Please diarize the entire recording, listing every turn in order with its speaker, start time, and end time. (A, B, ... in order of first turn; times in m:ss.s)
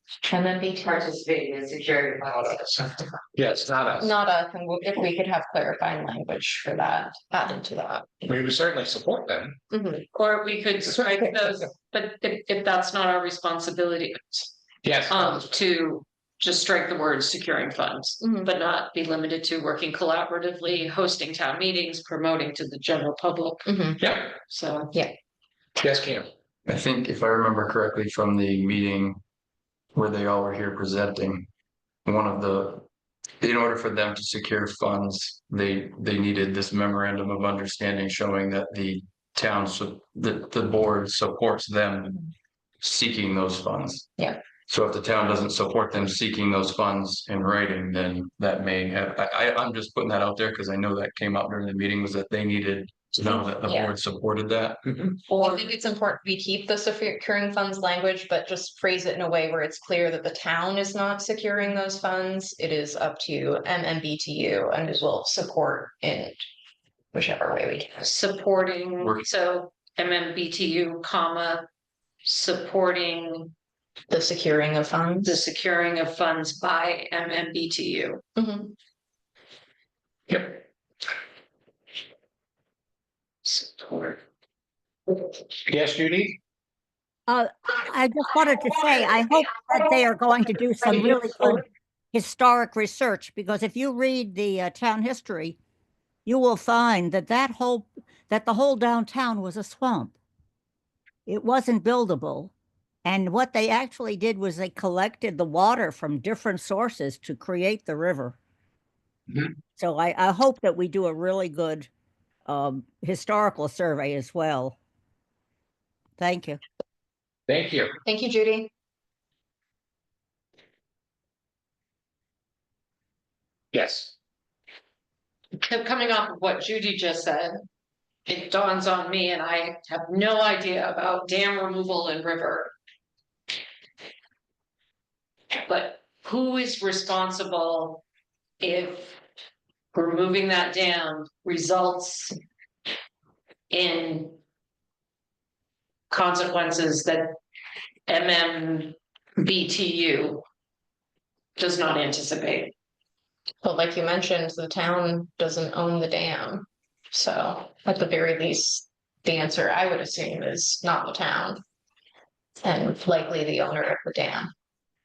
0:00.2-0:00.9 A
0:00.8-0:03.1 B
0:02.3-0:04.1 C
0:04.0-0:08.1 A
0:08.2-0:09.6 C
0:09.7-0:10.0 A
0:10.1-0:14.5 D
0:14.8-0:15.6 C
0:15.1-0:24.9 D
0:18.2-0:18.5 A
0:23.6-0:24.0 A
0:24.0-0:24.3 C
0:25.8-0:26.3 C
0:26.7-0:29.2 E
0:29.9-0:31.5 E
0:32.0-0:32.8 E
0:33.4-0:42.2 E
0:42.8-0:44.1 E
0:44.7-0:54.9 E
0:53.6-0:53.9 A
0:55.3-1:06.4 A
1:07.1-1:08.1 A
1:08.0-1:11.7 D
1:12.2-1:13.5 D
1:14.1-1:15.4 A
1:15.2-1:18.2 D
1:18.4-1:18.7 A
1:20.3-1:20.6 C
1:25.6-1:26.4 C
1:27.3-1:35.6 F
1:36.2-1:40.1 F
1:41.2-1:42.5 F
1:43.0-1:48.4 F
1:49.8-1:51.9 F
1:52.4-1:54.8 F
1:56.2-1:56.6 F
1:57.5-1:57.9 C
1:58.0-1:58.7 A
2:03.7-2:04.1 C
2:05.6-2:07.6 D
2:08.3-2:12.7 D
2:15.7-2:18.0 D
2:18.6-2:19.2 D
2:19.9-2:22.3 D
2:23.7-2:24.4 D
2:26.1-2:27.4 D
2:28.1-2:30.4 D
2:31.6-2:32.7 D
2:33.6-2:41.6 A
2:42.6-2:44.5 A